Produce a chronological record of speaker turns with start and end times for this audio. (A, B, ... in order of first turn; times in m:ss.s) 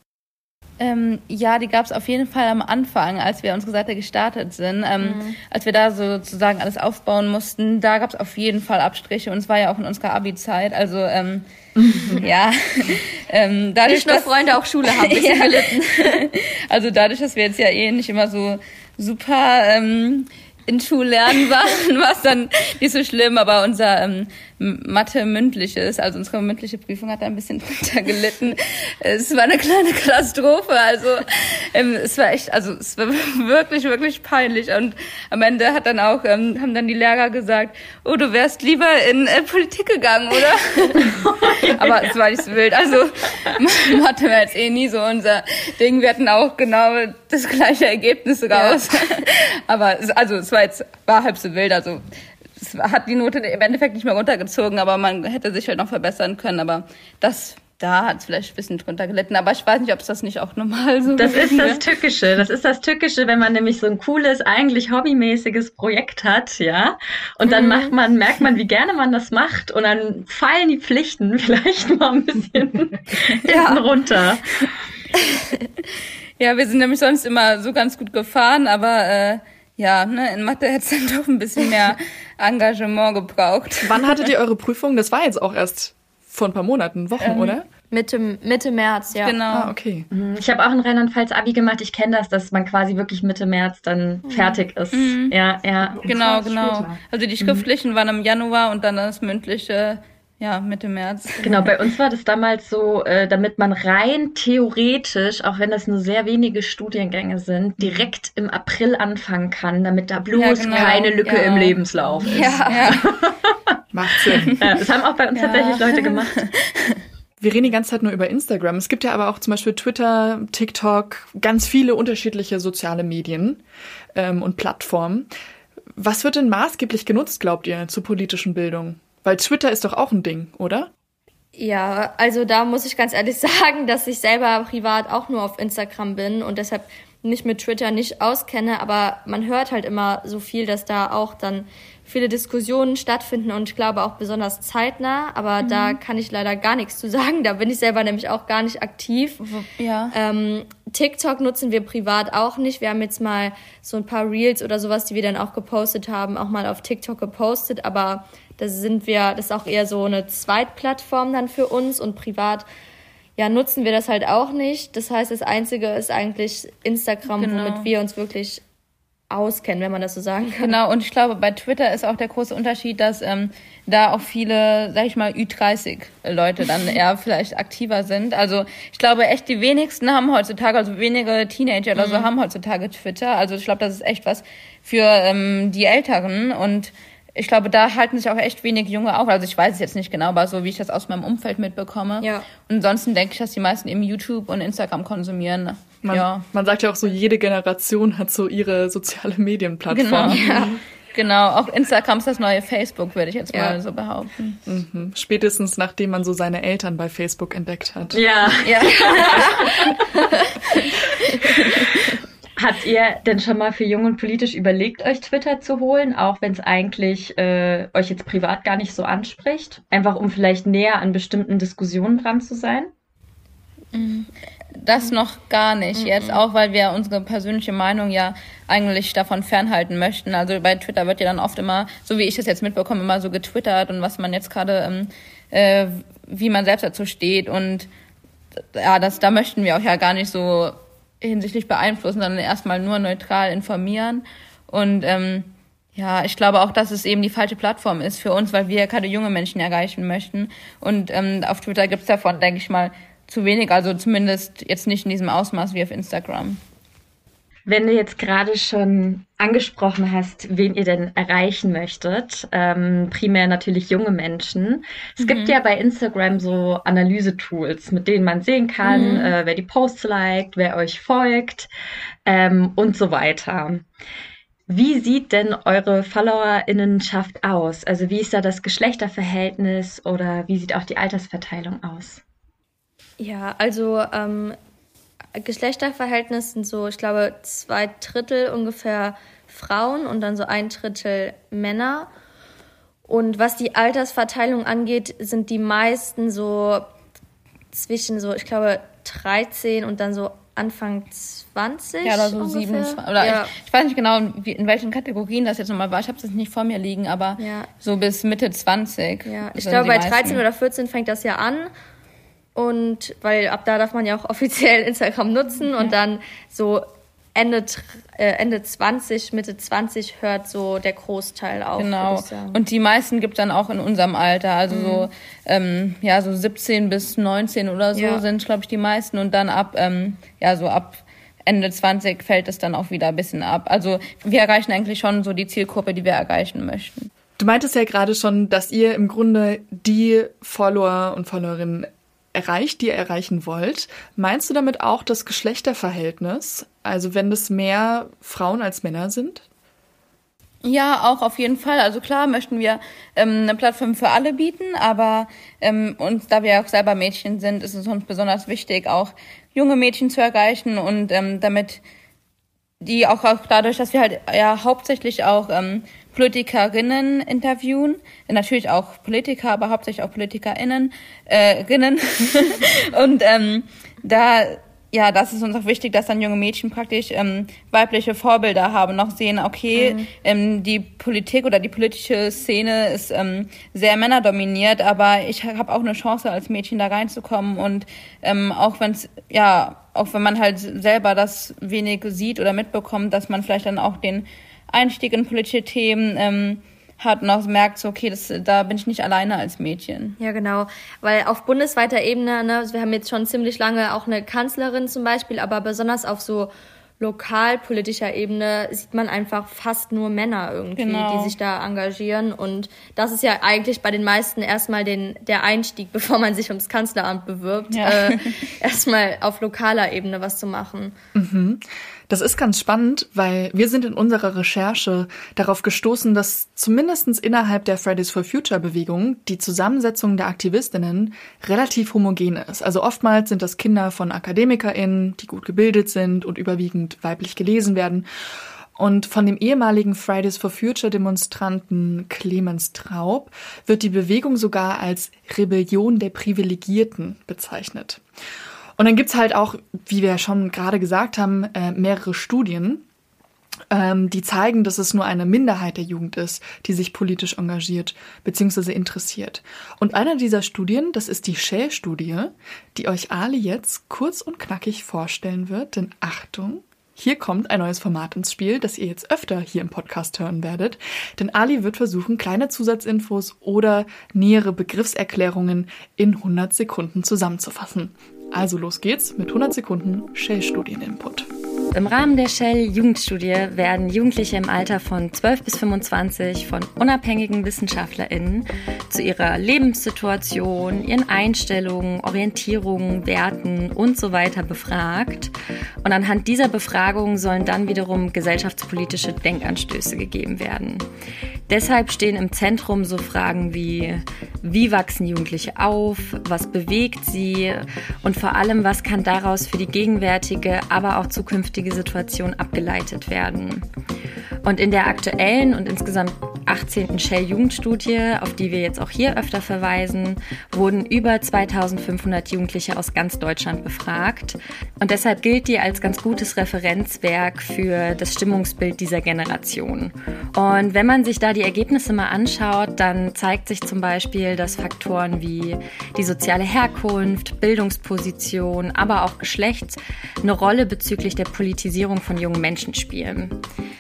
0:00.8-0:11.4 A
0:05.0-0:05.4 B
0:11.8-0:12.2 C
0:12.1-0:14.3 A
0:13.9-0:16.2 B
0:14.8-0:52.0 A
0:41.3-0:41.9 D
0:48.5-0:48.8 B
0:52.6-1:01.8 A
1:01.2-1:14.7 D
1:07.5-1:07.9 B
1:13.5-1:13.8 B
1:16.4-1:24.1 A
1:23.8-1:27.7 C
1:27.2-1:27.5 A
1:27.9-1:29.4 B
1:29.2-1:29.7 A
1:29.5-1:30.1 C
1:30.1-1:37.7 D
1:34.3-1:34.6 B
1:34.9-1:35.4 A
1:36.0-1:41.7 A
1:41.4-1:53.5 D
1:50.4-1:53.0 A
1:50.8-1:51.6 B
1:52.3-1:53.0 B
1:53.9-1:54.6 C
1:54.4-1:56.4 D
1:55.4-1:57.0 A
1:57.4-2:03.6 C
2:04.2-2:05.3 C
2:06.0-2:10.9 C
2:11.6-2:29.5 B
2:25.6-2:26.0 A
2:29.4-2:30.1 A
2:30.1-2:42.6 B
2:43.4-2:48.6 B
2:47.3-2:47.9 A
2:49.3-2:50.7 B
2:50.6-3:16.4 A
3:02.0-3:02.3 B
3:12.2-3:12.5 B
3:16.0-3:20.7 C
3:19.9-3:24.6 A
3:20.3-3:20.8 B
3:23.5-3:23.8 B
3:24.7-3:28.2 C
3:28.1-3:30.0 D
3:28.6-3:29.7 A
3:29.4-3:29.7 B
3:30.3-3:30.9 B
3:31.4-3:31.9 A
3:32.6-3:42.9 D
3:44.0-3:44.3 B
3:44.8-3:57.9 A
3:46.0-3:46.4 B
3:58.7-4:16.6 A
4:17.7-4:31.7 D
4:25.2-4:25.5 A
4:28.8-4:29.3 B
4:28.9-4:29.3 A
4:32.3-4:33.9 D
4:34.7-4:42.2 D
4:43.2-4:44.6 B
4:45.4-4:52.1 B
4:53.1-4:56.9 B
4:57.7-5:03.5 B
5:02.0-5:10.4 A
5:07.4-5:07.7 B
5:09.2-5:11.7 B
5:12.6-5:22.6 B
5:21.8-5:37.1 A
5:24.7-5:25.1 B
5:28.0-5:28.2 B
5:37.4-5:49.4 C
5:50.6-6:01.8 A
6:02.8-6:40.2 A
6:19.8-6:20.1 B
6:40.2-7:01.0 B
6:50.8-6:51.3 A
6:57.7-6:58.3 A
7:01.2-7:18.0 C
7:18.8-7:28.0 C
7:28.8-7:32.8 C
7:33.7-8:01.3 C
8:01.7-8:15.3 D
8:15.8-8:20.8 D
8:21.5-8:33.7 D
8:34.4-9:03.4 D